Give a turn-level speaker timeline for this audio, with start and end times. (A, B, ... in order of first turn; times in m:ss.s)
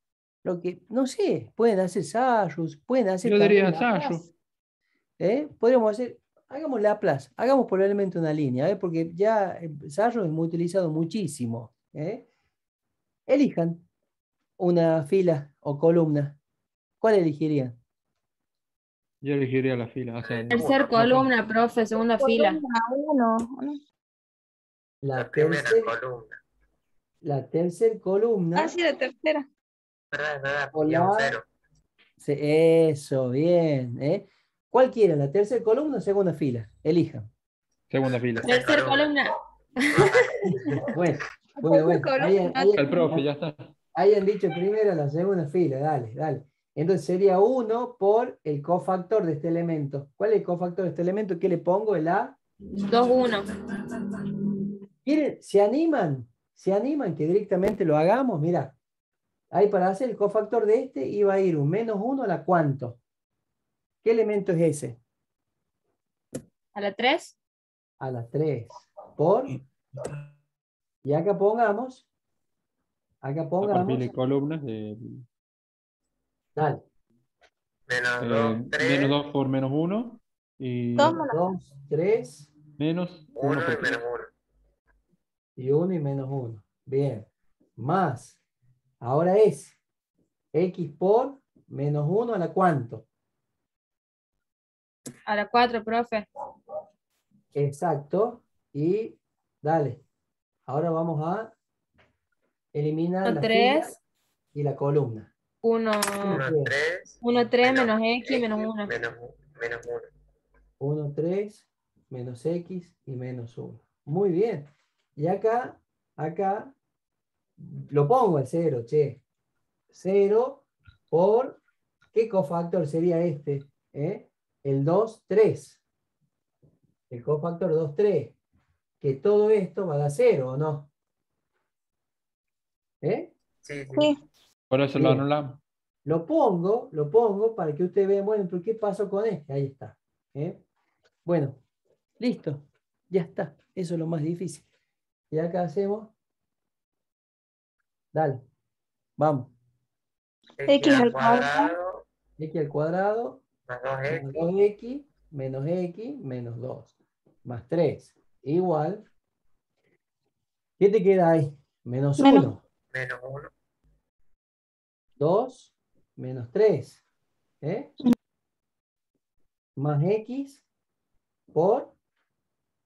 0:00.4-0:04.3 A
0:03.2-0:04.3 B
0:05.2-0:12.2 A
0:13.3-0:13.9 A
0:14.6-0:16.4 A
0:17.0-0:17.8 A
0:19.2-0:21.3 B
0:20.2-0:20.8 C
0:20.5-0:22.6 D
0:22.2-0:23.8 E
0:25.0-0:26.0 A
0:25.1-0:26.4 C
0:27.2-0:28.8 A
0:28.6-0:29.5 E
0:30.1-0:31.4 C
0:30.7-0:31.4 A
0:32.2-0:37.3 A
0:37.9-0:38.7 B
0:38.3-0:39.1 C
0:38.4-0:40.8 D
0:40.0-0:40.9 C
0:40.9-0:43.3 A
0:41.6-0:43.1 E
0:42.8-0:43.7 B
0:44.0-0:52.4 A
0:52.8-0:53.5 D
0:55.0-0:58.8 A
0:59.5-1:03.0 A
1:04.0-1:05.0 A
1:06.7-1:07.4 D
1:08.0-1:09.6 A
1:11.0-1:12.1 A
1:13.2-1:14.1 A
1:13.6-1:15.3 B
1:16.6-1:16.8 A
1:17.9-1:19.2 C
1:18.2-1:21.2 B
1:21.0-1:21.4 E
1:21.0-1:22.5 A
1:22.8-1:24.0 B
1:23.4-1:24.3 C
1:25.6-1:28.4 A
1:29.0-1:29.8 A
1:30.5-1:33.1 A
1:35.3-1:36.3 D
1:37.5-1:40.0 A
1:40.7-1:41.5 A
1:42.7-1:44.0 A
1:43.2-1:44.0 D
1:44.5-1:45.3 A
1:45.6-1:46.4 D
1:46.2-1:50.1 C
1:46.3-1:46.7 A
1:47.2-1:48.9 D
1:50.8-1:56.7 A
1:57.6-1:59.2 A
1:59.9-2:01.6 A
2:02.1-2:05.8 A
2:07.1-2:08.4 A
2:09.0-2:10.9 A
2:13.0-2:13.3 A
2:13.6-2:14.1 C
2:14.7-2:15.6 B
2:15.0-2:15.3 A
2:16.0-2:20.6 A
2:21.2-2:21.6 A
2:22.2-2:24.6 A
2:25.3-2:26.1 A
2:28.1-2:28.4 A
2:29.2-2:29.5 A
2:30.6-2:32.0 C
2:30.6-2:31.7 E
2:32.4-2:33.4 A
2:33.7-2:34.4 C
2:34.1-2:36.9 A
2:37.4-2:39.1 A
2:40.8-2:42.6 A
2:42.2-2:42.5 E
2:42.9-2:43.5 C
2:45.2-2:47.0 A
2:47.6-2:47.9 A
2:49.8-2:50.6 A
2:51.5-2:51.9 A